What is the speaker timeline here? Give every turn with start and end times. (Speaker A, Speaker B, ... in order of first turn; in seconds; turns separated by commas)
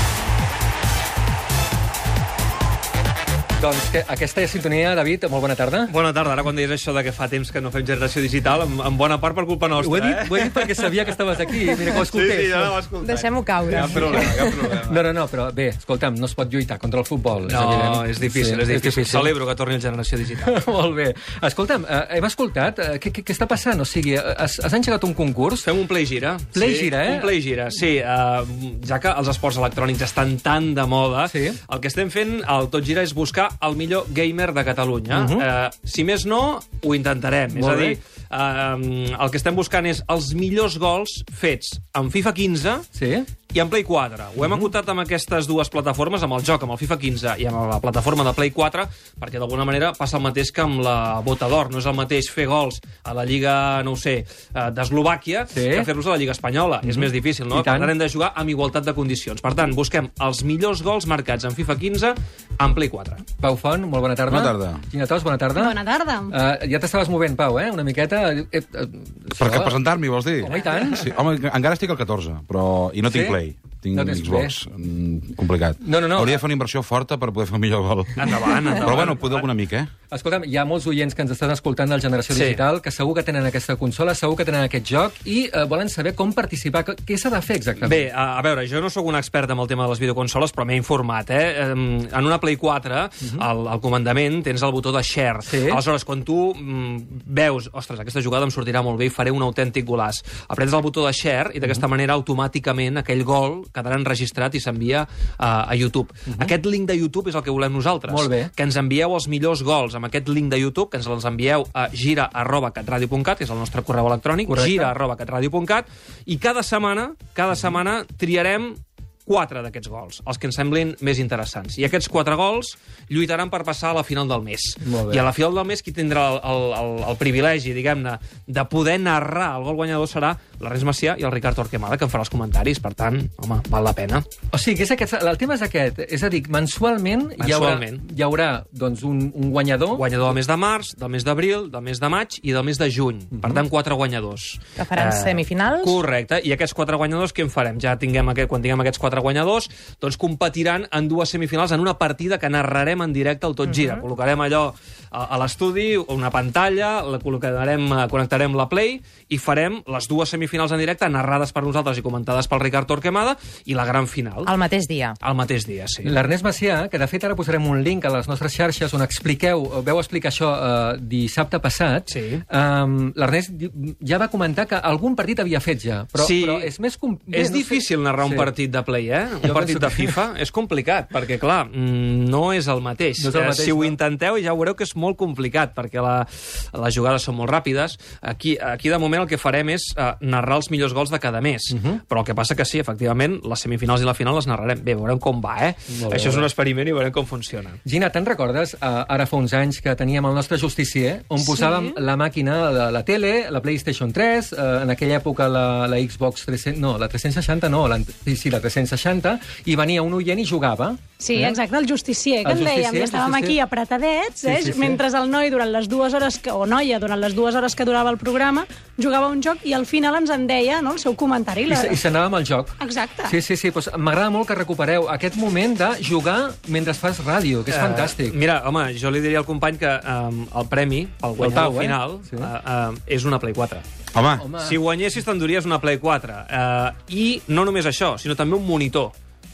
Speaker A: 3.6-5.9, Speaker B: 5.9-10.9, Speaker A: 9.8-12.8, Speaker B: 11.8-15.0, Speaker C: 13.0-14.6, Speaker A: 13.7-19.3, Speaker B: 17.4-20.5, Speaker A: 20.4-25.7, Speaker B: 25.6-42.9, Speaker A: 26.5-27.3, Speaker A: 31.3-31.6, Speaker A: 35.1-35.4, Speaker A: 37.5-38.0, Speaker A: 42.9-43.3, Speaker B: 43.5-63.2, Speaker A: 55.5-55.9, Speaker A: 56.9-57.9, Speaker A: 63.4-69.8, Speaker D: 64.3-64.8, Speaker E: 65.5-66.3, Speaker D: 69.4-79.9, Speaker A: 70.4-71.1, Speaker A: 73.1-73.4, Speaker A: 73.9-74.6, Speaker A: 75.8-76.4, Speaker B: 78.2-79.5, Speaker A: 80.1-88.1, Speaker B: 82.3-82.6, Speaker B: 87.8-134.2, Speaker A: 95.5-95.8, Speaker A: 108.1-108.5, Speaker A: 114.5-114.9, Speaker A: 124.8-125.3, Speaker A: 134.5-140.1, Speaker B: 137.4-138.0, Speaker B: 139.9-164.6, Speaker C: 144.8-146.0, Speaker C: 164.4-165.2, Speaker B: 165.2-166.2, Speaker A: 166.0-178.5, Speaker B: 172.1-172.4, Speaker B: 176.2-176.7, Speaker B: 177.3-197.8, Speaker A: 179.4-180.2, Speaker A: 183.2-184.0, Speaker A: 191.7-192.0, Speaker A: 195.9-196.5, Speaker A: 197.8-211.6, Speaker E: 201.4-201.9, Speaker E: 211.2-222.0, Speaker A: 212.4-213.6, Speaker A: 214.5-215.0, Speaker A: 221.7-228.3, Speaker E: 222.8-223.4, Speaker B: 227.7-233.8, Speaker A: 231.4-232.5, Speaker D: 234.1-234.5, Speaker A: 234.4-234.8, Speaker B: 234.6-239.2